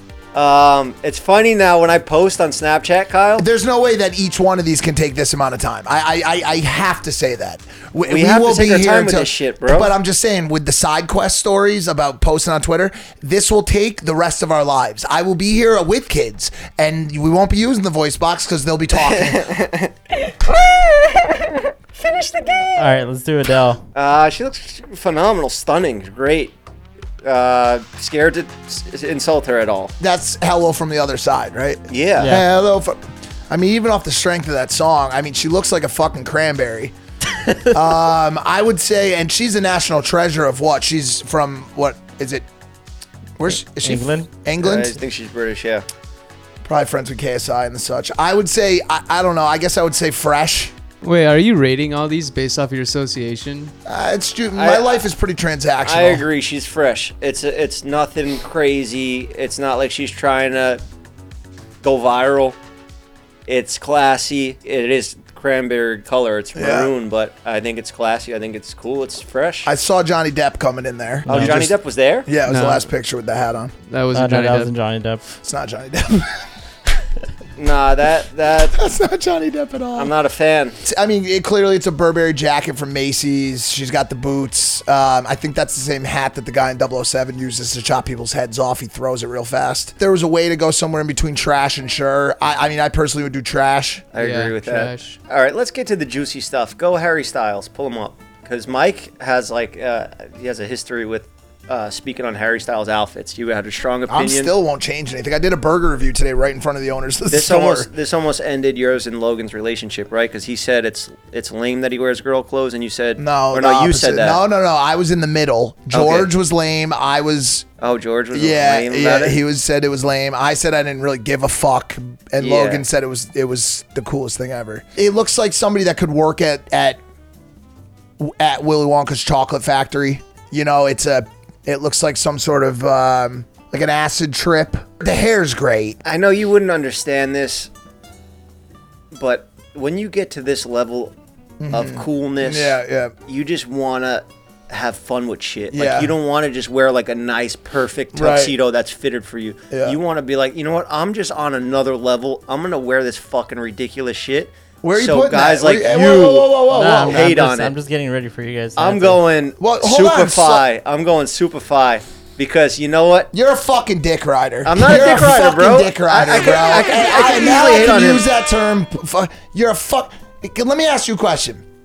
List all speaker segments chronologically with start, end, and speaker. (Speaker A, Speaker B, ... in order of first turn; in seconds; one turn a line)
Speaker A: 0.3-3.5
Speaker B: 3.4-19.5
Speaker A: 8.1-9.9
Speaker A: 19.0-19.9
Speaker C: 20.2-22.8
Speaker D: 22.8-23.8
Speaker A: 23.9-26.5
Speaker A: 27.2-29.9
Speaker B: 30.0-33.0
Speaker A: 31.9-32.3
Speaker D: 32.2-32.5
Speaker B: 33.5-36.9
Speaker B: 37.7-42.5
Speaker B: 43.4-45.0
Speaker D: 43.8-44.3
Speaker A: 44.6-45.9
Speaker B: 46.6-50.7
Speaker E: 51.0-53.7
Speaker B: 53.9-56.2
Speaker A: 54.5-55.0
Speaker A: 55.8-60.8
Speaker A: 61.8-62.6
Speaker A: 63.5-69.7
Speaker B: 66.5-66.9
Speaker B: 69.6-73.7
Speaker A: 71.3-72.3
Speaker E: 72.4-72.8
Speaker E: 73.9-74.7
Speaker D: 74.1-75.2
Speaker B: 75.4-76.4
Speaker A: 77.6-78.8
Speaker B: 78.7-80.1
Speaker A: 80.0-80.8
Speaker B: 80.8-94.0
Speaker A: 94.1-104.5
Speaker E: 94.2-95.2
Speaker B: 104.1-107.9
Speaker A: 107.3-114.4
Speaker B: 113.2-117.7
Speaker A: 115.9-116.3
Speaker A: 117.8-119.4
Speaker B: 118.3-127.0
Speaker A: 122.4-122.8
Speaker B: 128.2-136.0
Speaker A: 136.0-137.7
Speaker A: 139.1-141.1
Speaker B: 141.6-143.1
Speaker A: 141.7-157.7
Speaker B: 145.7-146.1
Speaker B: 148.1-148.5
Speaker B: 149.7-150.0
Speaker B: 154.8-157.3
Speaker D: 156.7-159.2
Speaker A: 158.8-163.3
Speaker B: 159.6-160.7
Speaker B: 163.3-171.6
Speaker A: 164.6-168.3